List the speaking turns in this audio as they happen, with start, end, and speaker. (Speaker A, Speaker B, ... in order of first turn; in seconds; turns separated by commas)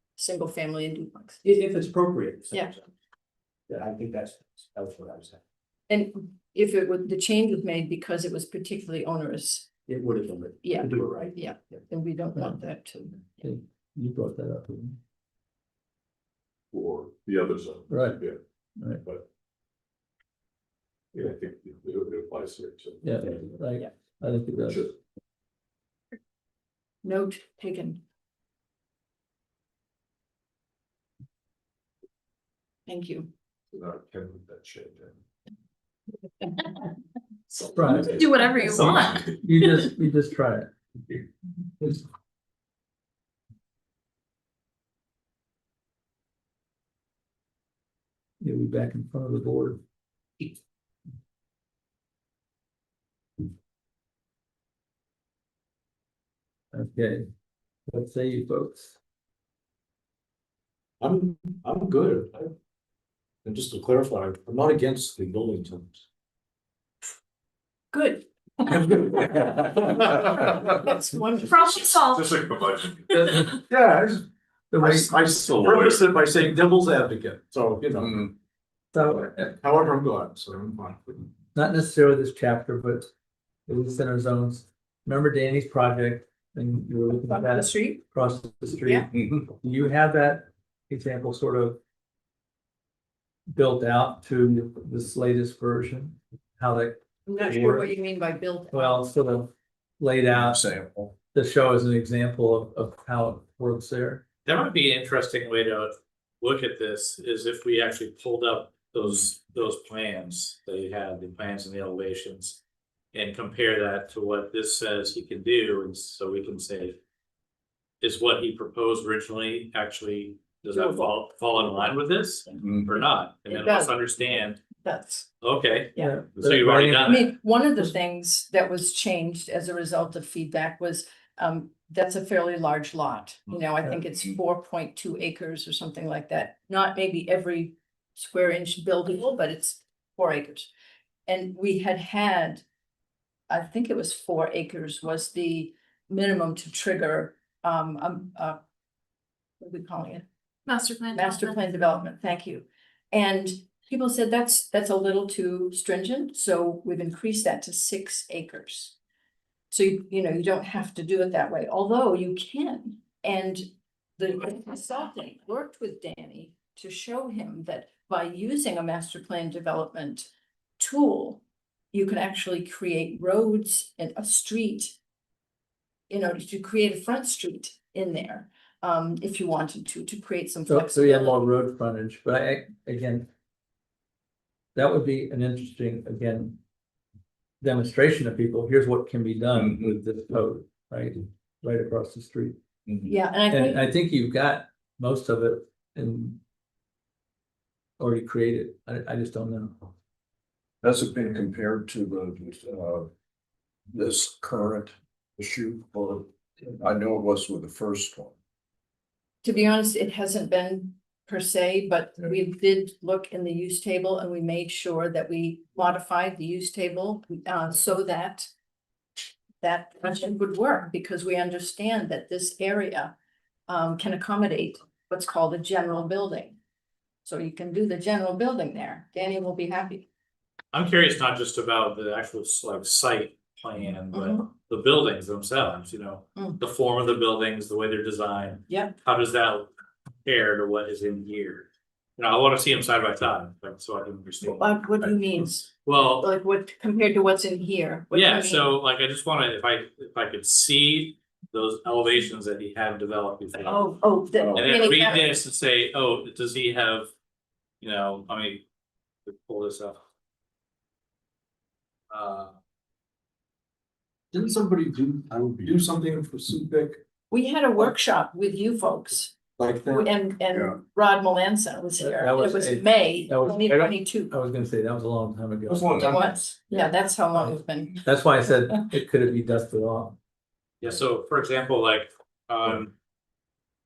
Speaker A: 0.2-1.4, Speaker B: 1.4-2.9, Speaker B: 3.7-5.4, Speaker A: 5.9-9.7, Speaker B: 9.9-11.8, Speaker A: 10.6-13.5, Speaker C: 12.4-12.6, Speaker C: 13.4-15.0, Speaker D: 16.7-18.4, Speaker C: 17.9-18.2, Speaker C: 18.8-19.0, Speaker D: 21.1-23.2, Speaker C: 23.0-24.9, Speaker A: 27.0-28.0, Speaker A: 32.9-33.3, Speaker D: 33.7-35.1, Speaker C: 37.7-41.3, Speaker E: 38.0-39.3, Speaker C: 48.4-49.8, Speaker C: 56.7-57.2, Speaker C: 57.9-59.0, Speaker B: 61.0-62.5, Speaker B: 63.5-66.0, Speaker A: 67.9-69.0, Speaker B: 69.0-70.1, Speaker A: 70.6-72.0, Speaker E: 71.4-72.3, Speaker D: 72.0-73.1, Speaker B: 73.1-74.2, Speaker C: 74.7-75.1, Speaker B: 74.8-78.3, Speaker D: 75.8-76.0, Speaker C: 78.9-79.6, Speaker B: 79.5-81.3, Speaker C: 81.5-83.1, Speaker C: 83.7-91.8, Speaker A: 87.3-88.0, Speaker C: 93.5-97.9, Speaker A: 97.3-99.1, Speaker C: 98.7-100.6, Speaker F: 100.3-101.1, Speaker C: 101.3-104.2, Speaker G: 104.5-112.6, Speaker G: 113.1-117.0, Speaker G: 118.0-124.7, Speaker A: 120.7-121.1, Speaker A: 123.5-124.0, Speaker A: 124.8-125.3, Speaker G: 125.4-127.3, Speaker C: 126.0-127.2, Speaker A: 127.0-140.7, Speaker A: 141.3-142.6, Speaker A: 143.5-148.6, Speaker A: 149.6-150.2, Speaker E: 150.7-151.7, Speaker A: 151.1-158.9, Speaker A: 159.7-163.7, Speaker A: 164.2-175.0, Speaker A: 176.1-181.4, Speaker C: 180.7-183.3, Speaker C: 184.8-186.6, Speaker C: 187.6-192.6, Speaker F: 189.6-189.9, Speaker A: 193.1-193.9, Speaker C: 193.5-196.4, Speaker C: 198.0-199.9, Speaker F: 200.8-203.1, Speaker F: 203.9-206.3, Speaker F: 206.8-208.3, Speaker A: 209.4-218.5, Speaker A: 219.6-223.1, Speaker A: 223.7-226.6, Speaker A: 227.2-230.1, Speaker G: 230.7-239.7, Speaker A: 234.1-234.4, Speaker A: 238.7-238.9, Speaker G: 240.2-244.7, Speaker A: 244.5-248.7, Speaker G: 245.8-246.3, Speaker G: 248.1-254.0, Speaker A: 253.6-255.2, Speaker F: 254.4-254.7, Speaker G: 254.5-257.1, Speaker G: 257.8-258.6, Speaker G: 259.2-260.0, Speaker G: 262.1-262.5, Speaker B: 264.3-267.0, Speaker A: 267.3-269.4, Speaker B: 269.6-270.1, Speaker A: 269.9-274.3, Speaker C: 272.0-276.2, Speaker F: 275.7-276.3, Speaker A: 276.0-278.0, Speaker C: 278.0-280.2, Speaker G: 280.8-282.9